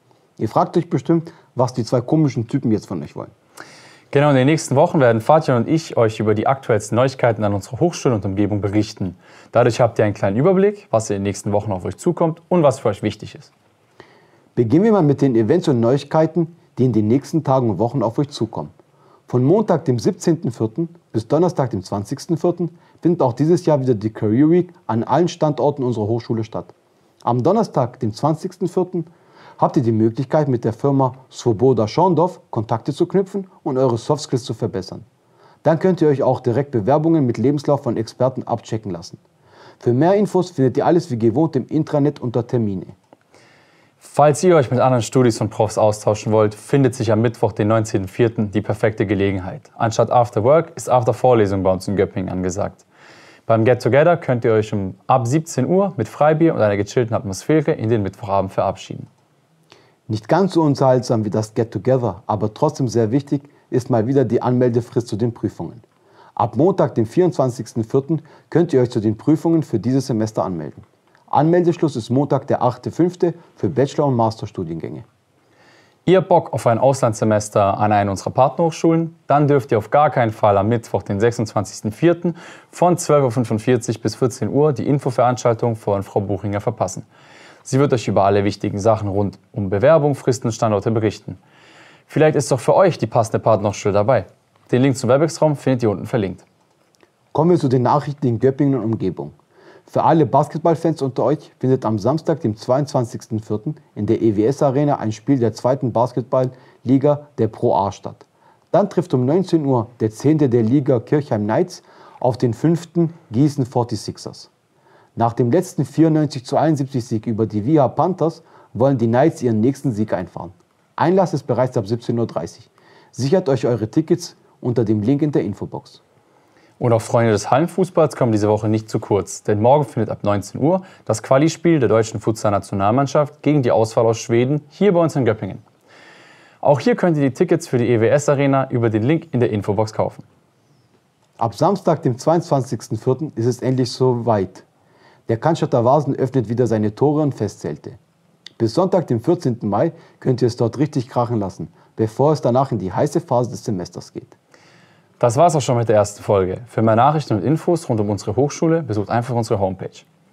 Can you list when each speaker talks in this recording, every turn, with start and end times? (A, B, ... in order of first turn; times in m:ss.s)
0:00.4-0:03.3 A
0:04.1-0:13.5 B
0:14.6-0:18.7 A
0:19.3-0:26.7 A
0:27.2-0:35.0 A
0:35.6-0:39.2 A
0:39.8-0:42.9 A
0:44.0-0:52.8 B
0:53.5-0:59.1 B
1:00.1-1:05.8 A
1:06.4-1:15.0 A
1:16.0-1:27.0 B
1:27.6-1:31.4 B
1:32.1-1:36.4 B
1:37.3-1:39.3 A
1:39.9-1:54.5 A
1:55.2-2:06.0 A
2:06.8-2:15.6 B
2:16.6-2:20.2 B
2:21.4-2:24.6 A
2:25.3-2:28.0 A
2:28.6-2:34.4 A
2:35.2-2:40.0 B